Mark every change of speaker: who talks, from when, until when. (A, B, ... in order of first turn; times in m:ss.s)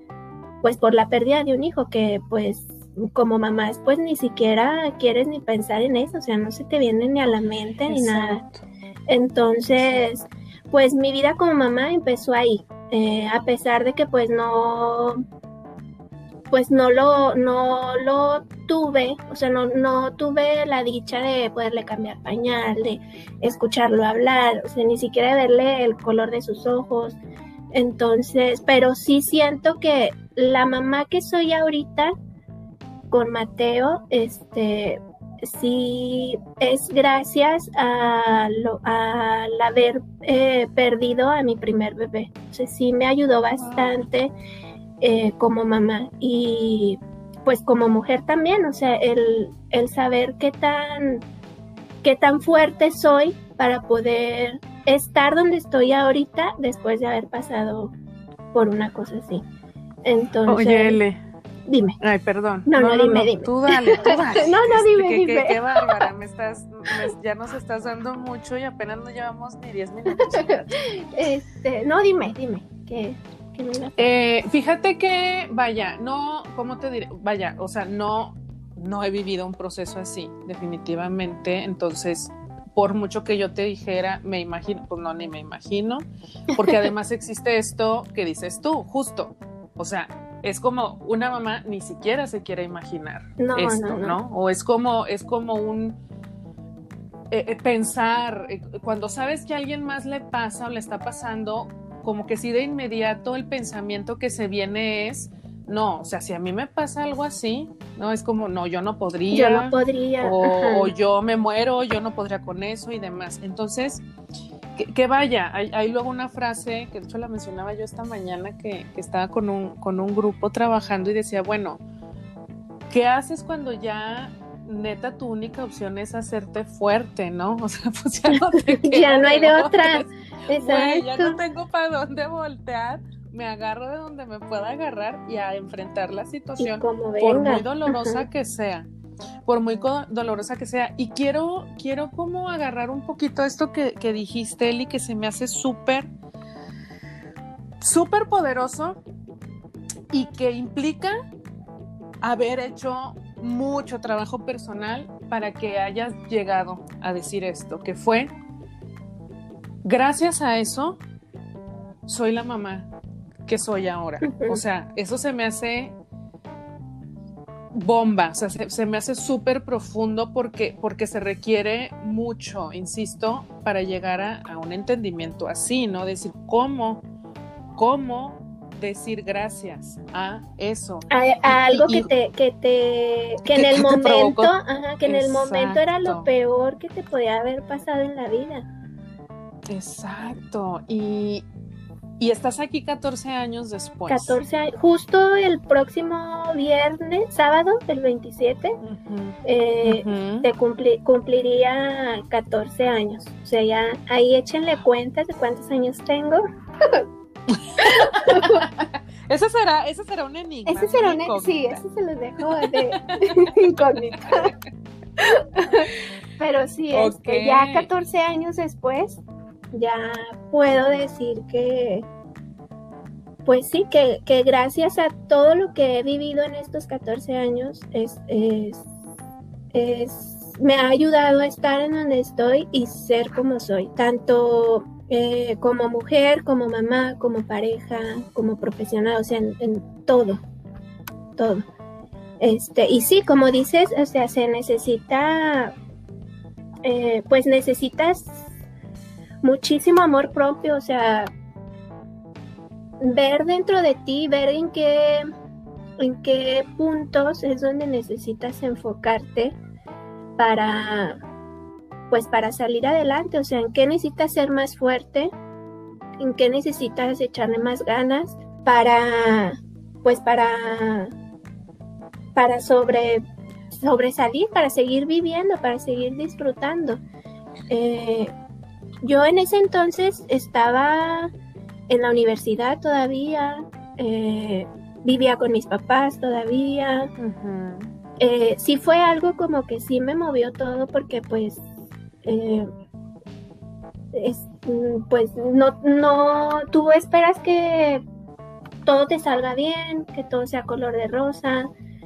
0:00.6-0:08.4 A
0:07.9-0:08.5 B
0:09.1-0:15.2 A
0:09.8-0:10.0 B
0:16.5-0:27.2 A
0:27.7-0:32.1 A
0:33.1-0:44.3 A
0:43.6-0:44.0 B
0:45.0-0:51.2 A
0:52.0-0:57.9 A
0:58.5-0:59.4 A
1:00.0-1:01.0 A
1:00.4-1:01.2 B
1:01.7-1:02.0 A
1:02.0-1:10.7 B
1:02.7-1:05.9 A
1:10.1-1:14.0 A
1:14.0-1:36.0 B
1:33.4-1:34.2 A
1:37.3-1:54.0 B
1:49.3-1:50.9 A
1:54.8-2:01.8 B
2:02.9-2:18.9 B
2:08.4-2:11.4 A
2:16.6-2:18.2 A
2:19.4-2:26.1 B
2:27.8-2:29.0 B
2:30.1-2:31.1 B
2:32.2-2:38.3 B
2:39.8-2:41.0 B
2:42.1-2:42.9 B
2:43.4-2:45.9 B
2:44.2-2:44.6 A
2:47.7-2:57.0 B
2:57.8-3:02.1 B
3:01.1-3:08.6 A
3:03.4-3:04.5 B
3:05.0-3:06.3 B
3:09.7-3:11.4 B
3:12.2-3:14.4 B
3:14.1-3:18.8 A
3:18.8-3:20.5 B
3:19.4-3:27.0 A
3:27.5-3:31.8 B
3:27.8-3:28.6 A
3:30.6-3:34.5 A
3:32.6-3:33.7 B
3:35.2-3:39.2 A
3:36.9-3:37.9 B
3:39.7-3:42.0 A
3:43.4-3:48.8 A
3:49.7-4:00.4 A
4:01.4-4:01.6 A
4:02.4-4:05.7 A
4:06.8-4:08.5 A
4:09.4-4:11.3 A
4:13.0-4:15.3 A
4:16.0-4:19.5 A
4:20.4-4:21.2 A
4:22.1-4:25.3 A
4:26.2-4:31.1 A
4:32.3-4:37.0 A
4:37.7-4:38.3 A
4:39.0-4:41.3 A
4:41.9-4:47.1 A
4:47.2-4:47.9 B
4:48.2-4:51.6 A
4:52.2-4:52.7 A
4:54.1-4:58.0 A
4:58.8-5:01.7 A